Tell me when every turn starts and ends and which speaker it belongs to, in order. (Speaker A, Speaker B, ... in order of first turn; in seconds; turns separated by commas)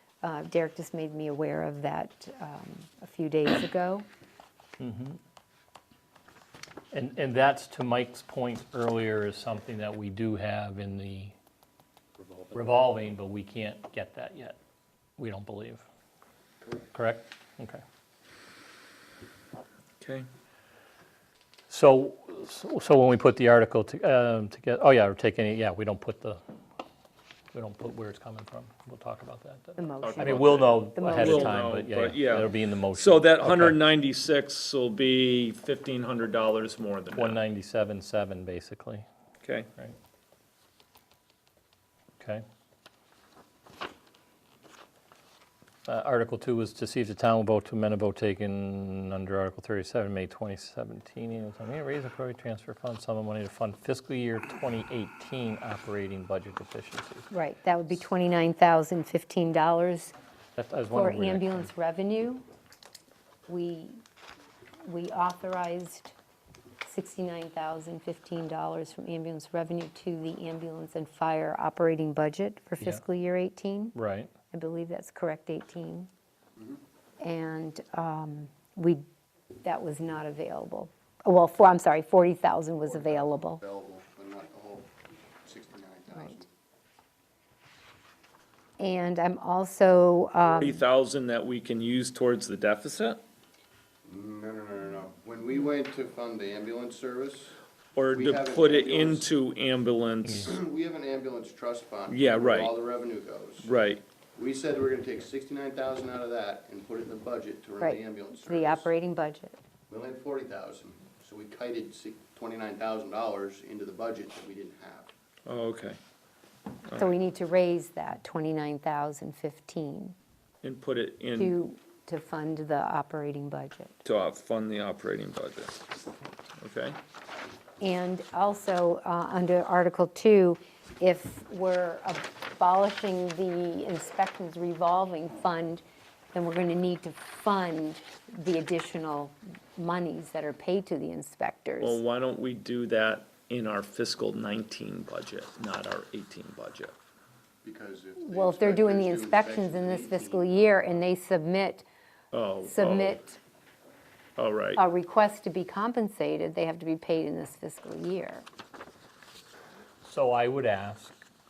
Speaker A: 0.2-4.0, Speaker B: 4.8-5.2, Speaker B: 6.9-11.3, Speaker B: 12.5-14.6, Speaker B: 15.2-15.8, Speaker B: 16.9-17.8, Speaker C: 20.0-20.3, Speaker B: 21.7-26.4, Speaker B: 27.5-33.8, Speaker A: 29.8-31.7, Speaker C: 30.0-37.4, Speaker B: 37.1-39.0, Speaker C: 39.4-39.7, Speaker B: 45.9-57.3, Speaker A: 57.3-60.1, Speaker B: 60.6-61.7, Speaker A: 60.9-62.4, Speaker A: 63.5-64.0, Speaker A: 64.8-66.2, Speaker A: 66.8-73.9, Speaker B: 74.0-74.3, Speaker A: 74.5-76.1, Speaker A: 77.2-79.0, Speaker A: 79.6-83.6, Speaker D: 82.9-86.5, Speaker A: 86.2-86.4, Speaker A: 88.8-90.8, Speaker C: 90.6-93.2, Speaker D: 94.0-97.6, Speaker C: 98.0-100.5, Speaker D: 98.1-99.3, Speaker D: 100.4-103.7, Speaker C: 102.1-102.7, Speaker C: 103.6-104.0, Speaker D: 104.4-108.9, Speaker A: 107.8-109.6, Speaker D: 109.9-115.1, Speaker C: 115.5-116.0, Speaker A: 117.0-120.2, Speaker C: 120.6-121.5, Speaker A: 121.4-124.0, Speaker C: 124.0-125.8, Speaker C: 126.6-127.0, Speaker A: 127.8-142.0, Speaker C: 141.8-147.0, Speaker D: 147.6-150.5, Speaker A: 148.2-151.8, Speaker C: 152.3-153.2, Speaker A: 152.7-153.4, Speaker C: 154.4-154.8, Speaker A: 154.8-158.4, Speaker B: 160.0-161.1